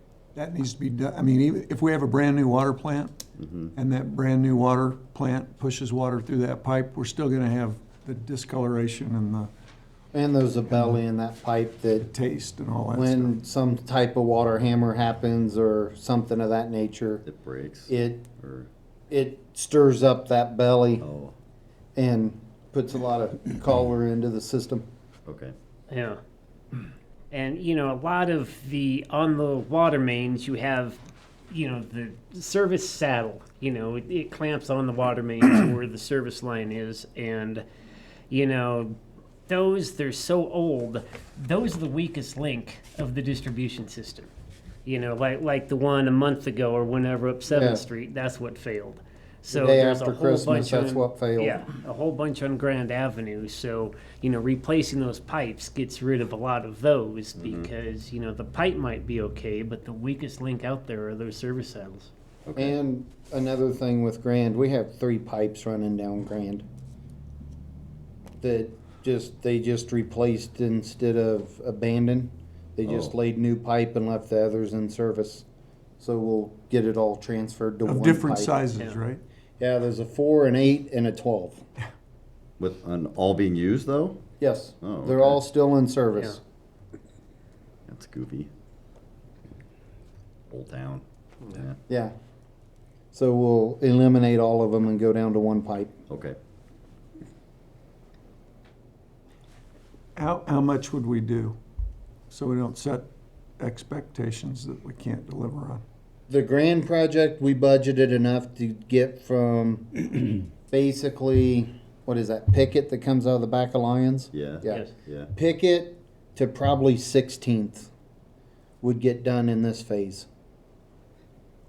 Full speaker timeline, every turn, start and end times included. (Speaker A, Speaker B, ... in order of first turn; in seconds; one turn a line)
Speaker A: 0.3-3.2
Speaker B: 3.4-3.7
Speaker A: 3.7-9.5
Speaker C: 10.1-12.1
Speaker A: 12.0-13.3
Speaker C: 12.9-17.2
Speaker B: 17.2-18.7
Speaker C: 17.9-18.3
Speaker C: 19.1-21.0
Speaker B: 21.0-21.3
Speaker C: 22.0-24.9
Speaker B: 25.3-25.6
Speaker D: 25.9-26.2
Speaker D: 27.3-37.6
Speaker D: 38.3-44.3
Speaker D: 44.9-62.1
Speaker C: 47.5-47.8
Speaker C: 49.5-51.6
Speaker B: 57.4-57.7
Speaker B: 62.5-62.8
Speaker C: 62.6-66.7
Speaker C: 68.4-75.4
Speaker B: 72.8-73.2
Speaker C: 76.0-78.6
Speaker A: 77.8-79.2
Speaker C: 79.6-81.6
Speaker B: 82.6-84.2
Speaker C: 84.4-86.4
Speaker B: 84.8-85.4
Speaker B: 87.9-88.5
Speaker B: 90.5-91.8
Speaker C: 91.9-92.1
Speaker C: 93.1-95.9
Speaker B: 96.1-96.4
Speaker A: 100.2-101.6
Speaker A: 102.3-105.8
Speaker C: 106.3-117.9
Speaker B: 114.3-115.3
Speaker C: 118.8-120.3